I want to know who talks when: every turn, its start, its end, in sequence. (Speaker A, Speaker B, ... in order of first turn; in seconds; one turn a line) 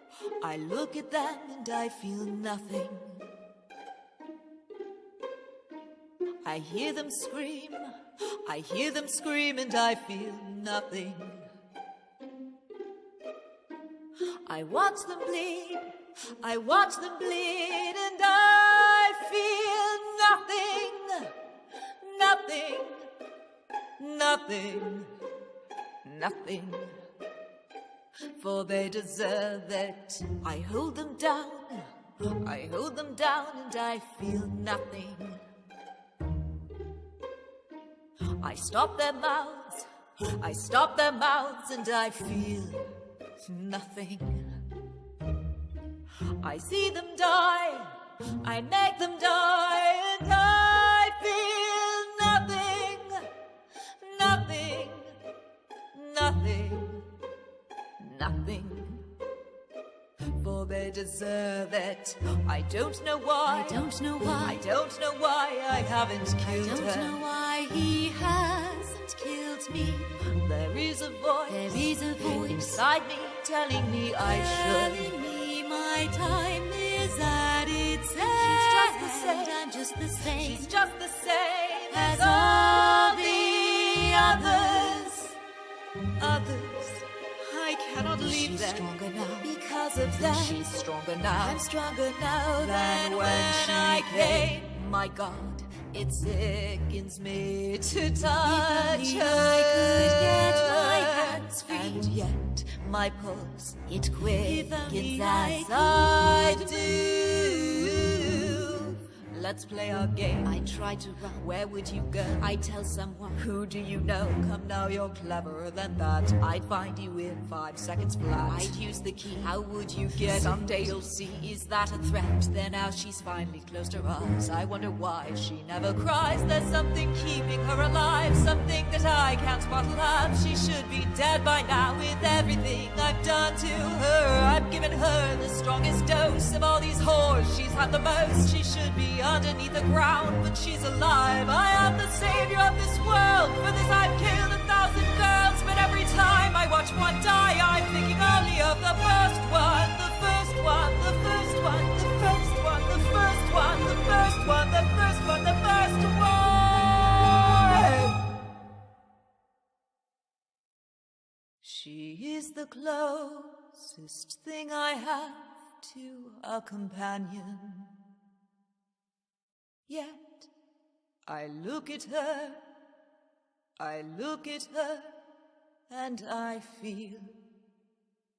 Speaker A: 0.3-3.3
Speaker A: 6.4-11.5
Speaker A: 14.4-21.4
Speaker A: 22.0-23.1
Speaker A: 24.0-25.1
Speaker A: 26.0-27.0
Speaker A: 28.3-35.4
Speaker A: 38.3-42.9
Speaker A: 43.4-44.7
Speaker A: 46.3-53.3
Speaker A: 54.0-55.2
Speaker A: 55.9-57.1
Speaker A: 58.0-59.1
Speaker A: 60.3-67.2
Speaker B: 63.5-64.6
Speaker B: 66.4-70.1
Speaker A: 70.2-75.2
Speaker B: 71.5-72.8
Speaker B: 74.2-80.7
Speaker A: 78.2-79.6
Speaker A: 80.2-85.4
Speaker B: 81.9-85.2
Speaker A: 86.2-158.3
Speaker B: 88.2-89.4
Speaker B: 90.2-90.6
Speaker B: 91.4-91.8
Speaker B: 92.5-94.5
Speaker B: 98.4-102.1
Speaker B: 104.1-108.3
Speaker B: 110.5-111.5
Speaker B: 120.2-120.8
Speaker A: 161.6-167.9
Speaker A: 169.9-170.5
Speaker A: 171.3-172.6
Speaker A: 173.8-175.2
Speaker A: 175.9-177.4